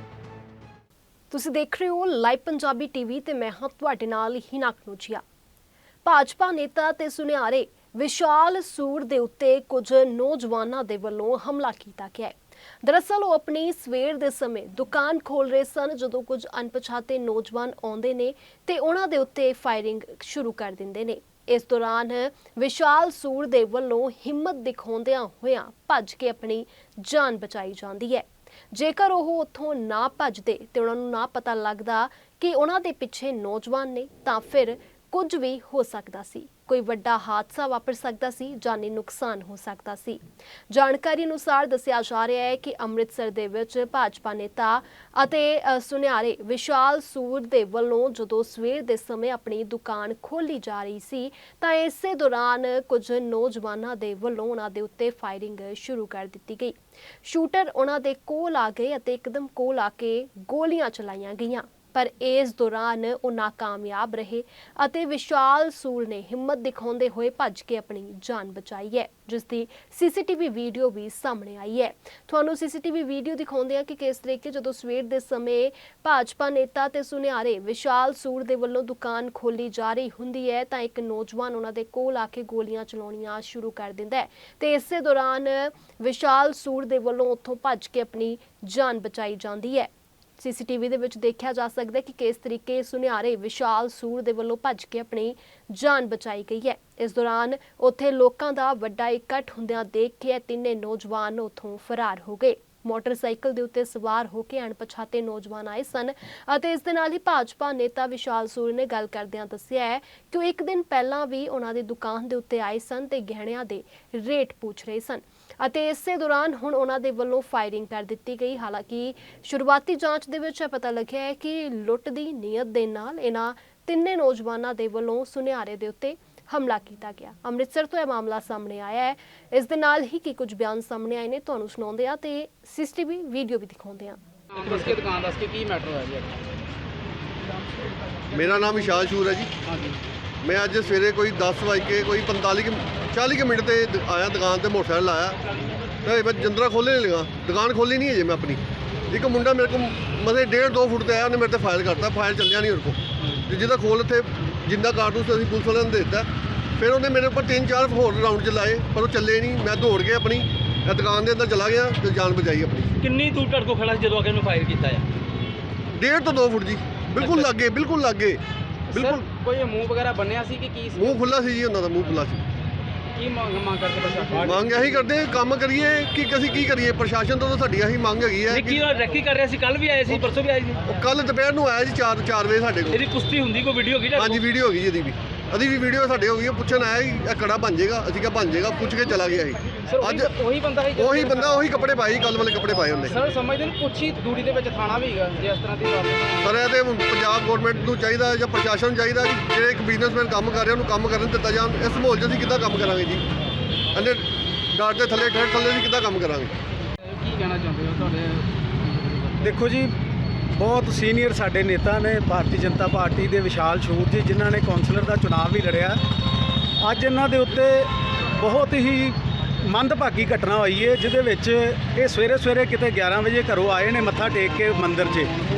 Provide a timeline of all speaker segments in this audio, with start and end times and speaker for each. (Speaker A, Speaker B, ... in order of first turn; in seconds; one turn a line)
Speaker A: 1.3-5.2
Speaker A: 6.0-134.2
Speaker B: 134.5-136.4
Speaker C: 138.3-139.5
Speaker B: 139.7-140.0
Speaker C: 140.4-145.4
Speaker C: 146.0-163.0
Speaker D: 163.0-165.1
Speaker C: 165.9-169.2
Speaker B: 167.2-167.5
Speaker B: 168.9-171.2
Speaker C: 170.9-172.4
Speaker B: 173.2-174.8
Speaker C: 174.4-178.8
Speaker D: 178.5-180.8
Speaker C: 180.9-183.1
Speaker D: 182.9-184.4
Speaker C: 184.1-190.3
Speaker B: 189.9-191.7
Speaker C: 190.9-193.2
Speaker B: 193.1-196.5
Speaker C: 196.4-203.2
Speaker C: 203.9-206.5
Speaker B: 207.0-209.4
Speaker E: 209.4-209.9
Speaker E: 210.5-216.0
Speaker E: 216.8-225.3